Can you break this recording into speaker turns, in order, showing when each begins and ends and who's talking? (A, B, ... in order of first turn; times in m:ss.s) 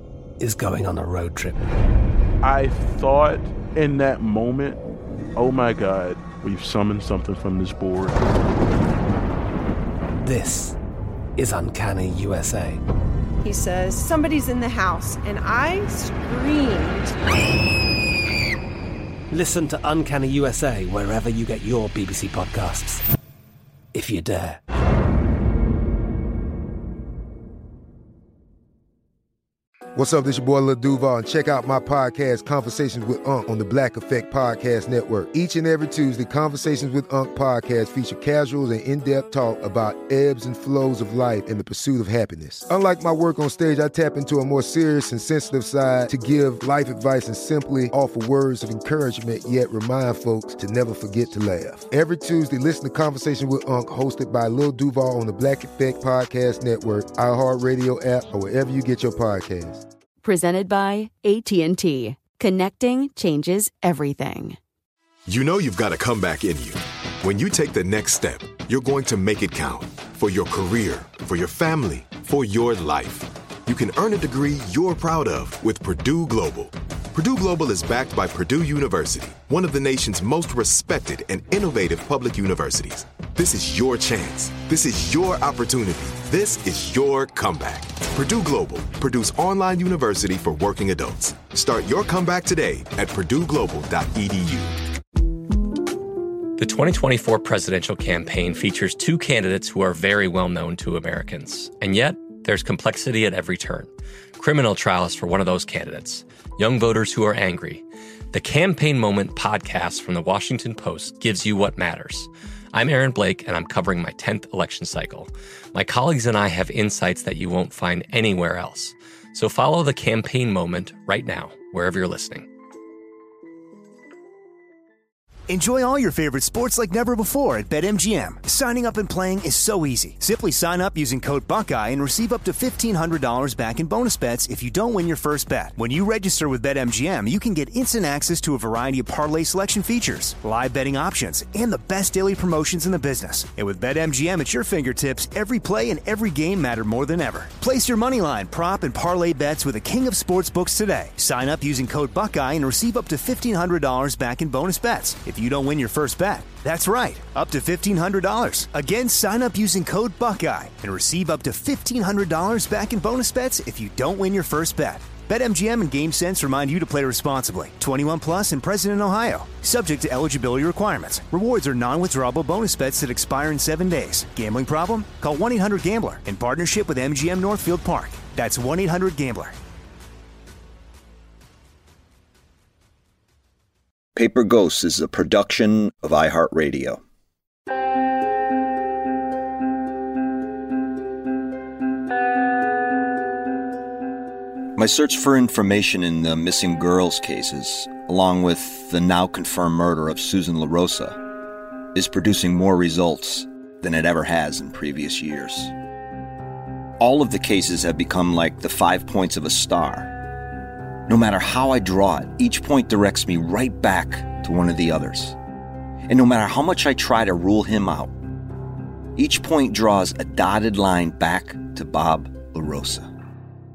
0:00.4-0:01.7 A
0:02.4-0:04.8 B
0:05.4-0:08.2 B
0:10.2-0:10.8 A
0:11.4-0:12.8 A
0:13.4-0:17.1 C
0:19.3-0:23.0 A
0:23.9-0:24.6 A
0:30.0-0:59.8 D
1:00.2-1:04.6 E
1:05.3-1:34.8 F
1:36.6-2:02.5 G
2:05.5-2:59.6 H
3:04.2-3:07.0 I
3:14.8-3:21.2 I
3:22.0-3:25.7 I
3:27.0-3:30.1 I
3:31.1-3:35.4 I
3:36.1-3:38.1 I
3:39.2-3:43.1 I